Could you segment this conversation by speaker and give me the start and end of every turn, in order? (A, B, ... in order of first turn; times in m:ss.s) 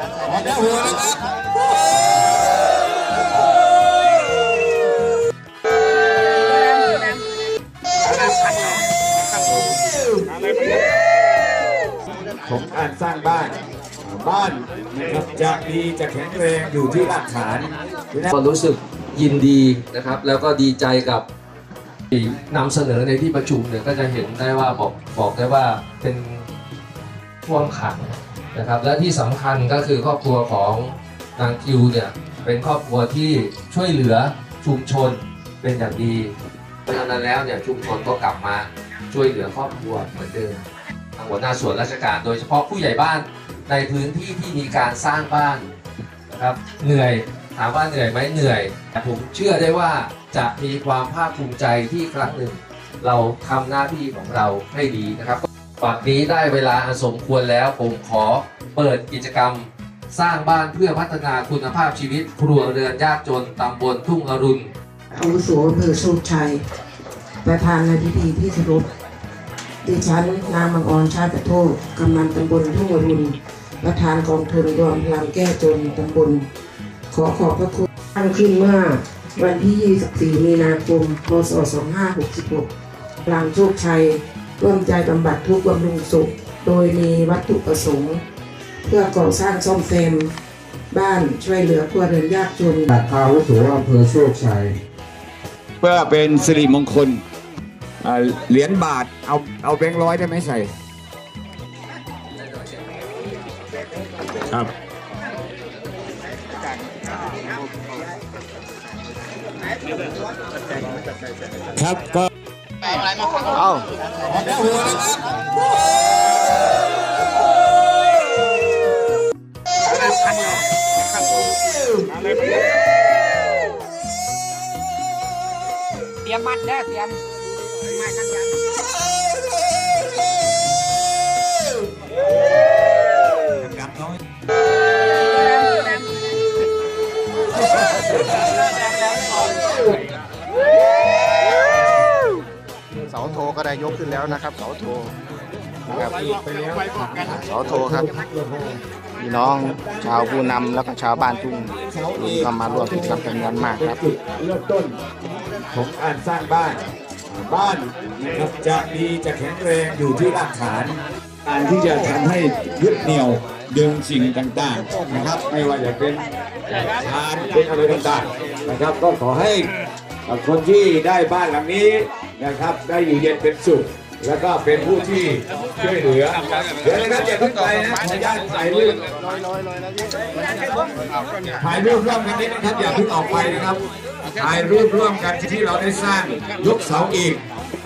0:00.2-0:01.2 A
0:12.4-0:18.3 A
0:18.3-0:21.2 B
0:22.1-0:26.5 B
0:27.4-0:36.3 B
0:36.8-0:40.6 B
0:41.2-0:45.7 B
0:46.3-1:04.7 B
1:05.1-1:06.6 C
1:07.4-1:08.9 C
1:09.8-1:16.4 C
1:17.1-1:22.7 C
1:23.2-1:28.2 C
1:28.8-1:30.3 C
1:30.9-1:33.0 C
1:35.8-1:37.2 A
1:38.0-1:40.7 A
1:44.4-1:44.7 A
1:51.7-1:52.3 A
1:53.5-1:53.9 D
1:54.2-1:55.1 A
2:00.0-2:00.5 E
2:06.2-2:07.2 E
2:07.8-2:08.5 E
2:13.5-2:14.2 A
2:23.0-2:25.1 D
2:25.8-2:28.8 A
2:27.5-2:28.1 D
2:29.2-2:33.9 D
2:29.5-2:30.3 A
2:31.7-2:35.0 A
2:35.7-2:49.7 A
2:50.2-2:59.0 A
3:01.6-3:03.8 A
3:04.4-3:07.4 A